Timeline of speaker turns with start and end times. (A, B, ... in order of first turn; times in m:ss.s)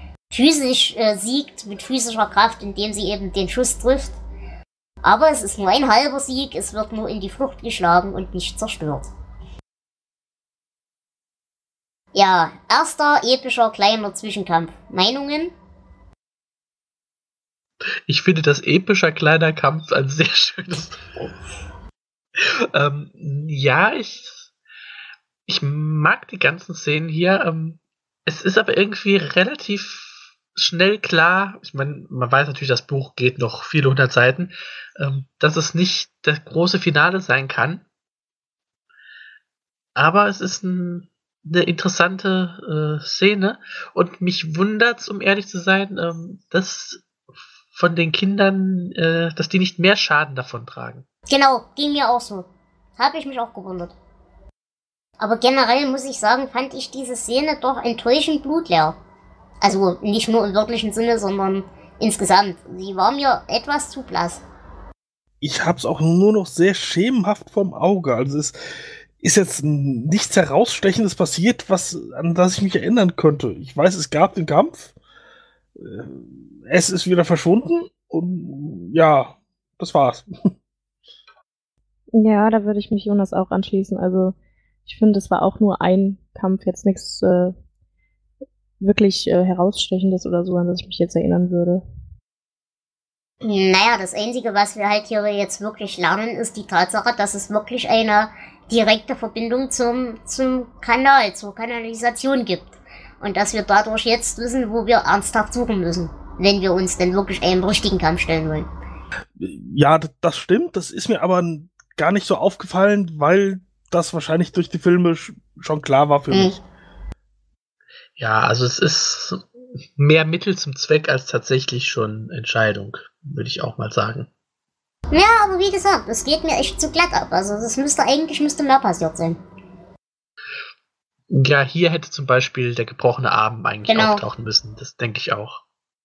0:00.3-0:04.2 A
0:05.0-0:09.1 A
0:12.1-0:15.5 A
0:18.1-0:21.1 B
0:22.4-0:24.5 B
0:25.5-0:37.8 B
0:40.0-0:47.0 B
0:47.7-0:51.0 B
0:51.3-0:54.0 A
0:55.2-0:59.0 A
0:59.6-1:04.4 A
1:05.4-1:08.6 C
1:09.2-1:14.9 C
1:15.8-1:20.5 C
1:22.1-1:24.4 D
1:24.9-1:27.5 D
1:28.8-1:31.8 D
1:33.4-1:48.7 A
1:49.4-1:56.6 C
1:56.3-1:56.6 A
1:58.2-1:59.4 B
2:00.0-2:04.3 B
2:05.1-2:09.4 A
2:11.3-2:15.6 B
2:13.9-2:14.2 A